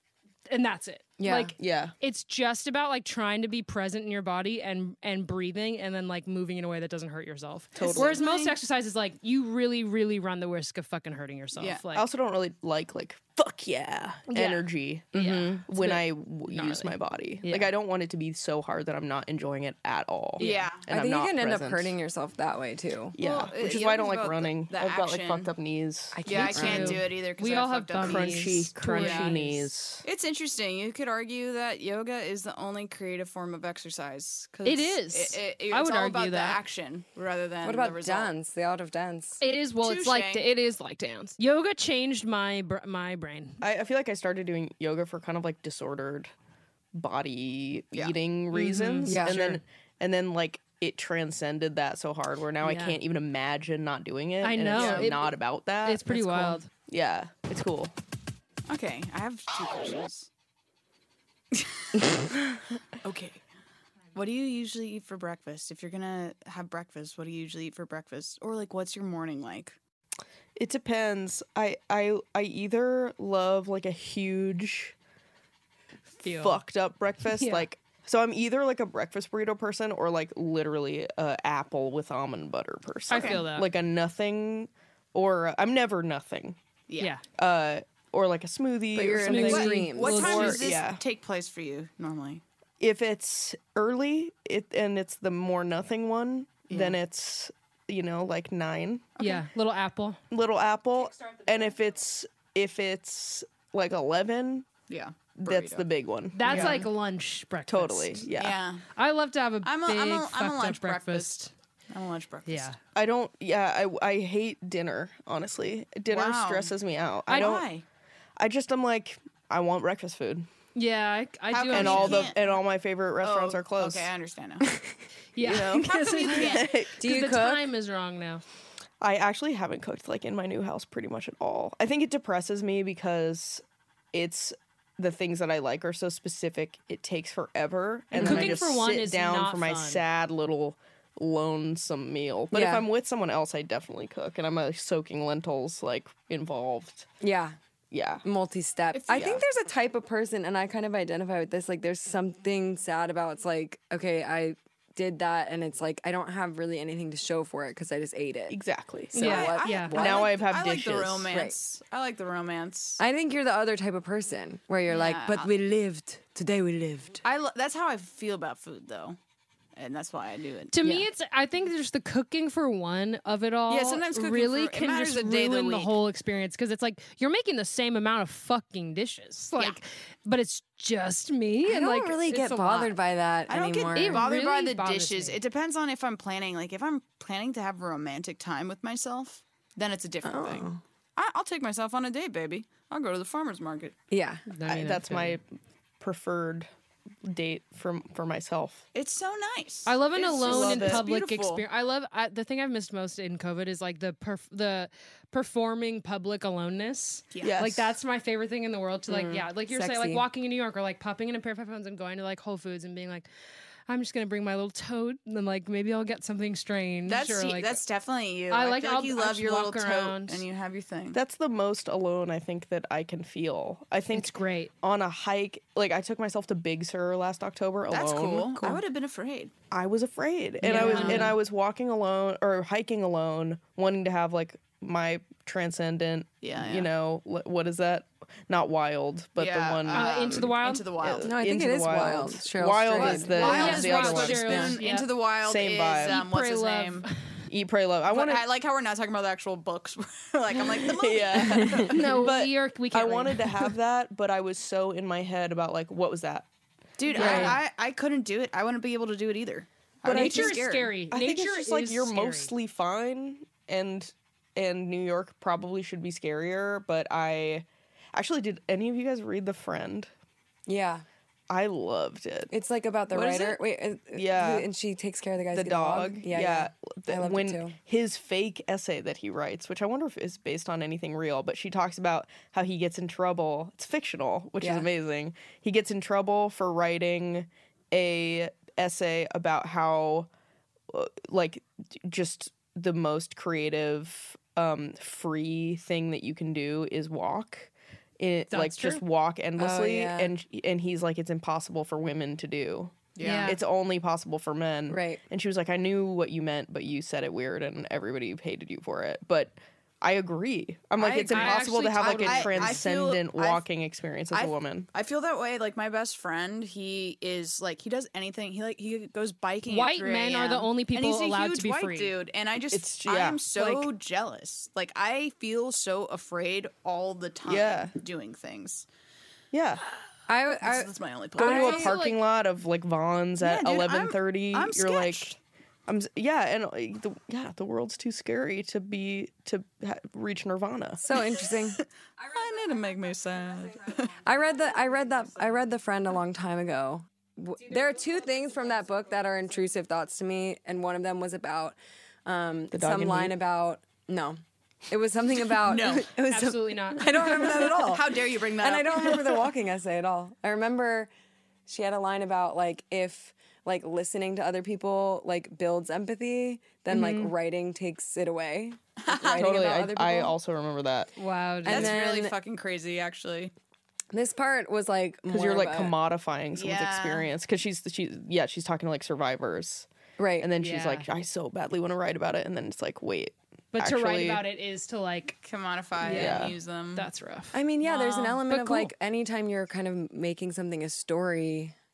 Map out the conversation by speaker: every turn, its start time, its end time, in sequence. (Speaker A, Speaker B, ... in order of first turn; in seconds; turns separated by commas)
Speaker A: 0.5-12.0, Speaker B: 1.2-1.5, Speaker C: 1.6-1.9, Speaker C: 7.7-8.2, Speaker D: 7.8-8.6, Speaker D: 11.6-11.8, Speaker C: 11.9-21.9, Speaker A: 14.3-17.7, Speaker A: 20.4-20.7, Speaker D: 20.4-20.8, Speaker B: 20.9-23.2, Speaker C: 23.1-26.2, Speaker D: 23.2-25.5, Speaker B: 26.1-27.0, Speaker D: 26.2-29.3, Speaker A: 26.5-29.7, Speaker C: 28.0-30.0, Speaker D: 30.0-38.3, Speaker A: 34.6-36.6, Speaker B: 37.6-39.4, Speaker A: 39.4-43.6, Speaker D: 39.8-40.5, Speaker C: 43.6-46.3, Speaker C: 46.9-57.9, Speaker A: 48.5-49.2, Speaker B: 49.0-49.5, Speaker A: 52.6-53.0, Speaker A: 54.4-56.7, Speaker D: 54.7-55.1, Speaker D: 58.7-60.3, Speaker D: 61.5-62.2, Speaker D: 63.0-63.4, Speaker D: 64.1-69.8, Speaker C: 70.5-74.9, Speaker A: 76.2-76.6, Speaker C: 76.2-86.6, Speaker A: 77.3-77.7, Speaker A: 83.1-83.7, Speaker D: 83.1-83.4, Speaker D: 86.9-87.1, Speaker C: 87.4-91.0, Speaker B: 88.9-90.6, Speaker A: 89.2-90.5, Speaker D: 89.3-92.4, Speaker C: 92.8-99.1, Speaker D: 96.7-97.0, Speaker D: 99.2-99.4, Speaker A: 99.2-100.2, Speaker C: 100.3-104.7, Speaker D: 104.9-105.9, Speaker C: 105.3-106.8, Speaker A: 106.3-108.3, Speaker D: 106.5-106.8, Speaker C: 107.7-108.6, Speaker D: 108.4-108.8, Speaker A: 108.9-111.5, Speaker D: 109.6-111.4, Speaker D: 111.9-112.7, Speaker A: 112.5-112.8, Speaker C: 112.9-117.7, Speaker D: 116.1-116.7, Speaker D: 117.3-117.8, Speaker C: 118.4-120.5, Speaker A: 120.7-122.3, Speaker D: 121.5-122.5, Speaker C: 121.7-124.1, Speaker D: 123.2-124.7, Speaker A: 125.3-128.4, Speaker C: 125.4-127.0, Speaker D: 125.7-126.8, Speaker B: 127.0-127.7, Speaker C: 129.0-147.1, Speaker A: 138.1-140.0, Speaker B: 138.1-138.6, Speaker B: 142.5-142.8, Speaker B: 147.2-147.6, Speaker C: 147.9-148.2, Speaker B: 148.2-158.6, Speaker D: 148.9-149.4, Speaker C: 149.1-149.4, Speaker C: 158.5-159.3, Speaker B: 159.1-160.3, Speaker D: 159.1-163.0, Speaker A: 159.2-159.9, Speaker C: 159.9-161.3, Speaker B: 161.3-161.6, Speaker B: 163.0-167.2, Speaker D: 164.9-165.5, Speaker D: 167.2-169.2, Speaker D: 169.8-171.0, Speaker A: 170.7-182.9, Speaker D: 173.7-176.0, Speaker B: 181.6-184.2, Speaker D: 183.5-193.9, Speaker A: 183.9-185.4, Speaker B: 190.2-190.8, Speaker B: 194.1-194.4, Speaker A: 194.5-195.4, Speaker C: 194.7-195.4, Speaker C: 196.0-196.7, Speaker C: 197.2-198.8, Speaker D: 198.9-201.6, Speaker A: 199.8-213.2, Speaker C: 200.2-201.0, Speaker D: 207.3-207.6, Speaker C: 207.4-207.9, Speaker B: 209.1-210.2, Speaker A: 213.9-217.8, Speaker D: 217.1-221.2, Speaker A: 218.5-220.4, Speaker C: 221.1-228.6, Speaker A: 224.1-224.7, Speaker D: 227.9-229.5, Speaker C: 229.7-244.7, Speaker A: 230.6-231.3, Speaker B: 230.6-231.2, Speaker D: 230.7-231.3, Speaker D: 236.4-236.9, Speaker D: 239.4-241.3, Speaker A: 239.9-240.9, Speaker B: 241.2-244.7, Speaker D: 242.9-247.1, Speaker A: 243.3-245.1, Speaker C: 245.4-246.2, Speaker A: 246.0-247.1, Speaker C: 247.5-248.4, Speaker D: 248.1-252.1, Speaker C: 250.7-256.5, Speaker A: 251.8-253.7, Speaker D: 257.0-260.9, Speaker C: 257.1-257.5, Speaker A: 257.1-257.6, Speaker B: 257.1-257.5, Speaker C: 260.0-270.1, Speaker A: 260.1-262.5, Speaker B: 270.7-271.0, Speaker C: 271.5-272.5, Speaker B: 272.5-277.8, Speaker C: 273.1-273.6, Speaker C: 274.1-274.7, Speaker C: 275.5-290.3, Speaker B: 284.6-284.9, Speaker C: 290.9-314.9, Speaker A: 298.5-299.0, Speaker B: 299.6-300.3, Speaker D: 303.1-303.6, Speaker A: 303.2-303.6, Speaker B: 304.9-305.2, Speaker D: 311.0-313.6, Speaker A: 311.3-312.8, Speaker D: 314.3-328.9, Speaker A: 319.7-322.1, Speaker C: 322.7-323.9, Speaker C: 327.4-327.9, Speaker C: 329.5-329.8, Speaker B: 330.3-331.9, Speaker D: 330.6-331.9, Speaker C: 331.4-341.0, Speaker A: 331.4-332.2, Speaker D: 333.4-335.4, Speaker B: 341.0-341.8, Speaker D: 341.8-344.2, Speaker B: 344.1-361.1, Speaker C: 352.7-353.3, Speaker D: 355.6-356.1, Speaker A: 356.2-357.7, Speaker D: 357.3-359.5, Speaker B: 361.7-370.4, Speaker C: 366.9-367.3, Speaker D: 369.0-369.5, Speaker C: 369.3-371.1, Speaker A: 371.1-371.9, Speaker B: 371.6-372.3, Speaker D: 371.6-373.5, Speaker B: 374.1-375.9, Speaker C: 375.3-379.9, Speaker D: 376.5-377.3, Speaker B: 380.2-380.5, Speaker C: 380.4-384.4, Speaker A: 380.6-381.1, Speaker A: 383.7-385.4, Speaker D: 385.4-387.1, Speaker A: 386.0-388.9, Speaker C: 386.1-386.6, Speaker B: 387.5-391.7